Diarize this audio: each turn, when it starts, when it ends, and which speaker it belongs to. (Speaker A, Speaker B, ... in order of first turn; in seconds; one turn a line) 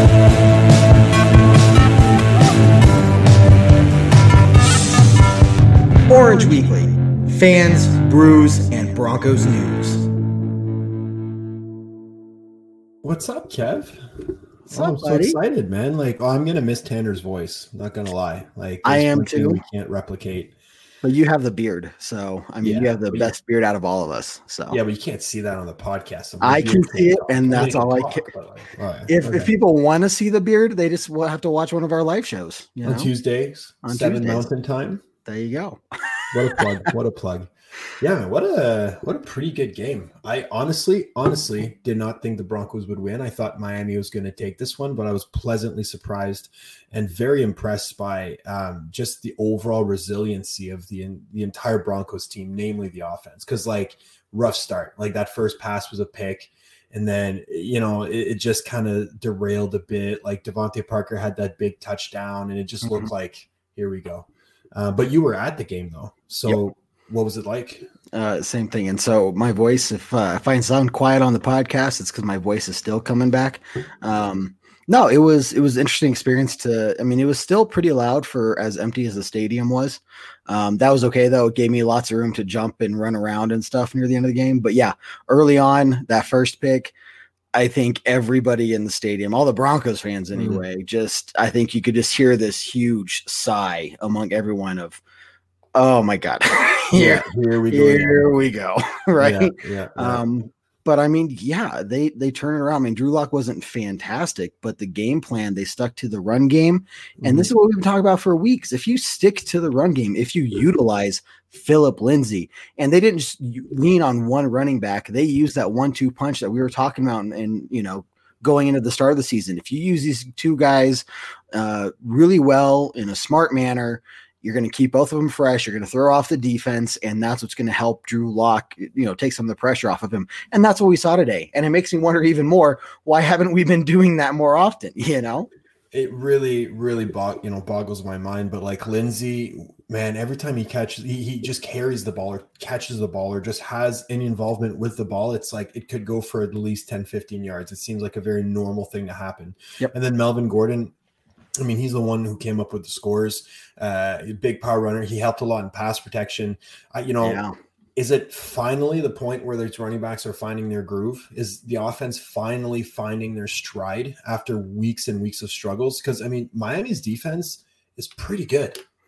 Speaker A: 6.1-10.1
Speaker B: 13.0-14.0
Speaker A: 14.7-15.4
Speaker B: 14.7-20.5
Speaker A: 18.8-19.6
Speaker A: 21.0-24.8
Speaker B: 22.6-23.3
Speaker B: 24.7-29.5
Speaker A: 26.4-28.3
Speaker A: 29.1-33.1
Speaker B: 32.8-35.0
Speaker A: 33.8-34.4
Speaker A: 35.2-36.9
Speaker B: 36.3-67.9
Speaker A: 62.8-63.1
Speaker A: 68.1-86.9
Speaker A: 87.5-95.0
Speaker B: 90.3-90.6
Speaker A: 95.7-135.5
Speaker B: 96.9-98.3
Speaker B: 99.2-100.2
Speaker B: 107.2-107.5
Speaker B: 135.9-150.9
Speaker B: 151.6-157.4
Speaker A: 157.2-157.5
Speaker B: 157.9-168.8